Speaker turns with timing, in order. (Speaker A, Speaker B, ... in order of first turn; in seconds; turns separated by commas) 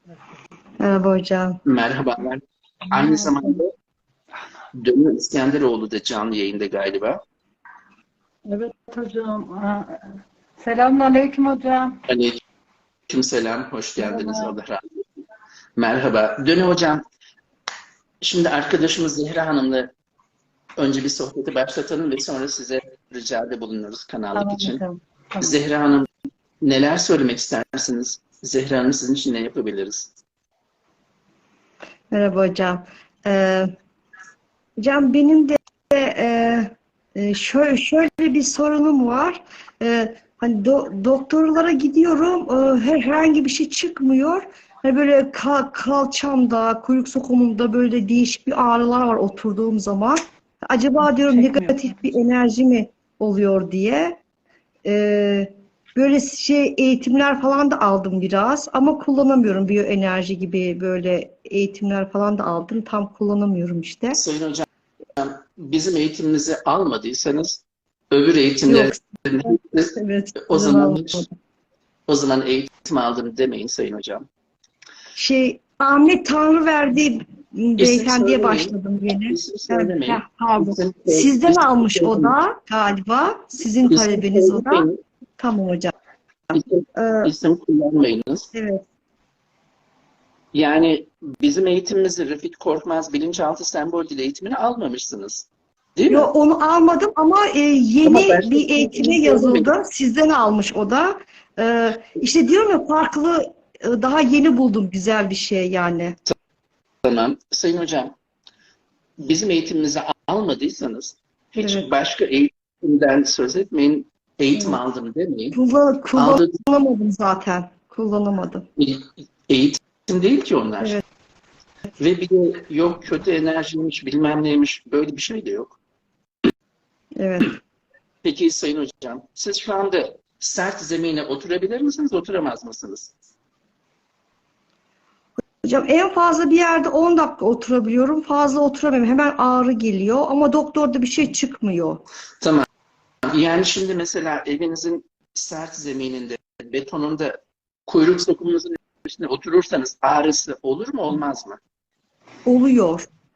Speaker A: 0.8-1.6, Speaker B: 1.6-3.7, Speaker C: 2.9-3.5, Speaker B: 4.7-7.2, Speaker C: 8.5-12.0, Speaker B: 12.1-12.4, Speaker B: 13.1-14.8, Speaker C: 14.0-14.5, Speaker B: 15.8-17.0, Speaker B: 18.2-19.9, Speaker B: 20.8-24.8, Speaker C: 24.3-25.6, Speaker B: 25.4-26.1, Speaker B: 26.6-30.1, Speaker A: 32.1-33.7, Speaker A: 34.8-54.2, Speaker C: 51.0-52.0, Speaker A: 54.8-64.2, Speaker B: 64.1-71.2, Speaker A: 68.7-71.3, Speaker B: 72.1-74.3, Speaker A: 75.2-85.9, Speaker B: 77.8-82.3, Speaker B: 83.8-85.0, Speaker A: 86.5-87.3, Speaker B: 86.5-88.5, Speaker A: 88.5-88.8, Speaker B: 90.5-96.3, Speaker A: 96.1-106.2, Speaker B: 98.0-99.7, Speaker B: 107.0-108.1, Speaker B: 109.2-115.6, Speaker A: 111.6-111.9, Speaker A: 114.5-114.8, Speaker A: 115.5-118.7, Speaker B: 116.1-116.6, Speaker B: 118.8-121.0, Speaker B: 122.0-125.8, Speaker A: 127.2-127.6, Speaker B: 128.2-133.1, Speaker A: 135.6-142.0, Speaker B: 143.2-151.6, Speaker A: 152.4-153.1